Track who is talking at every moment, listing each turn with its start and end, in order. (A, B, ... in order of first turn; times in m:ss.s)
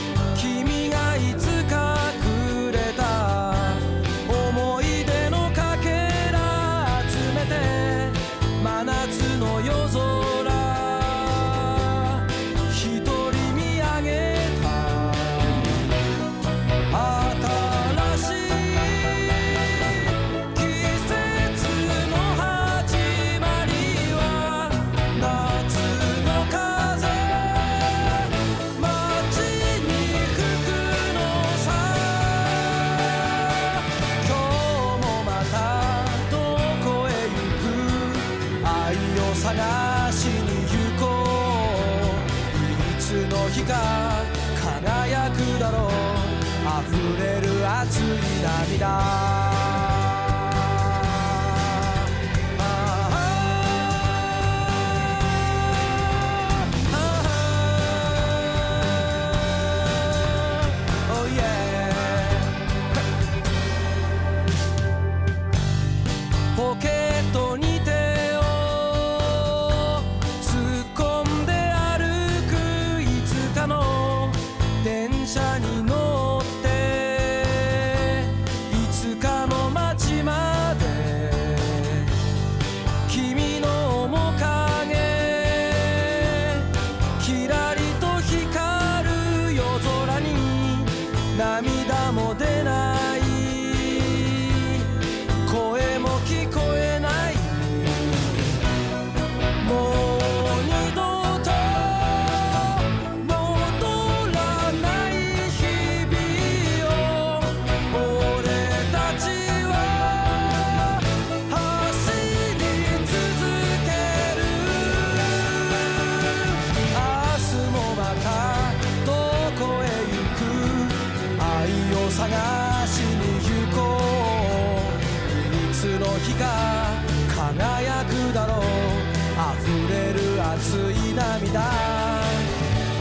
0:00.3-0:15.9 A
0:16.9-1:03.0 A
1:06.5-1:22.1 A
1:23.1-1:38.6 A
1:39.6-2:12.5 A